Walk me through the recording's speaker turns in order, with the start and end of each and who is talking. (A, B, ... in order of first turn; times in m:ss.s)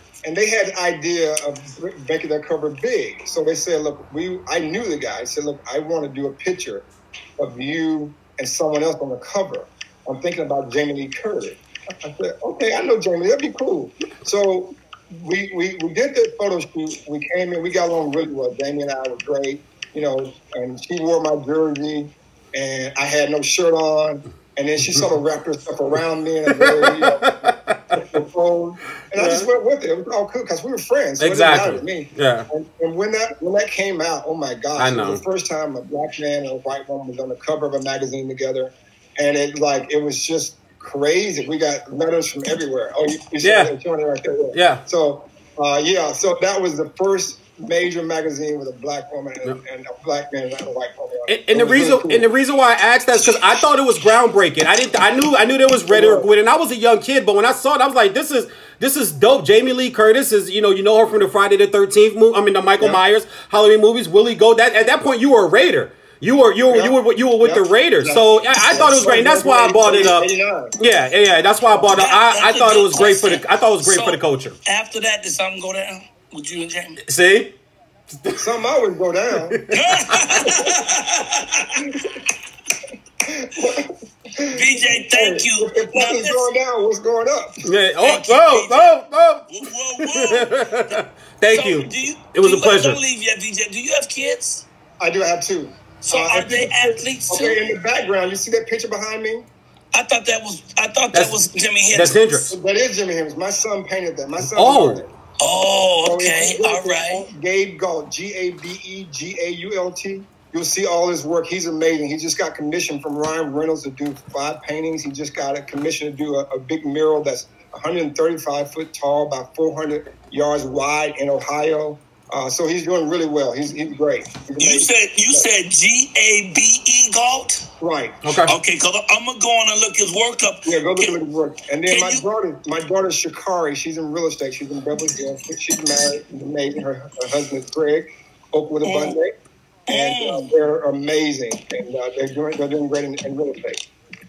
0:00.2-0:06.8 A
0:07.4-0:27.2 A
0:26.5-0:27.8 B
0:27.9-0:52.3 A
0:29.1-0:29.5 B
0:31.2-0:32.5 B
0:34.7-0:35.2 B
0:43.4-0:43.7 B
0:44.5-0:44.8 B
0:51.3-1:14.6 B
0:55.9-0:56.3 A
1:06.7-1:10.7 A
1:11.8-1:17.0 C
1:17.0-1:17.5 B
1:18.2-1:18.5 B
1:18.4-1:19.6 A
1:19.4-1:20.5 B
1:19.7-1:21.8 C
1:23.3-1:27.6 A
1:24.5-1:26.5 C
1:27.6-1:33.0 B
1:28.0-1:28.9 C
1:29.5-1:34.6 C
1:35.0-1:39.5 A
1:36.0-1:37.6 C
1:39.9-1:42.2 C
1:41.1-1:42.5 B
1:42.5-1:45.1 A
1:44.4-1:45.0 B
1:45.4-1:47.2 C
1:46.0-2:05.5 A
2:04.6-2:07.6 C
2:07.8-2:08.2 A
2:08.2-2:08.5 B
2:08.5-2:11.1 C
2:10.6-2:19.3 A
2:11.9-2:12.2 C
2:18.8-2:19.2 C
2:19.9-2:20.5 C
2:19.9-2:23.8 A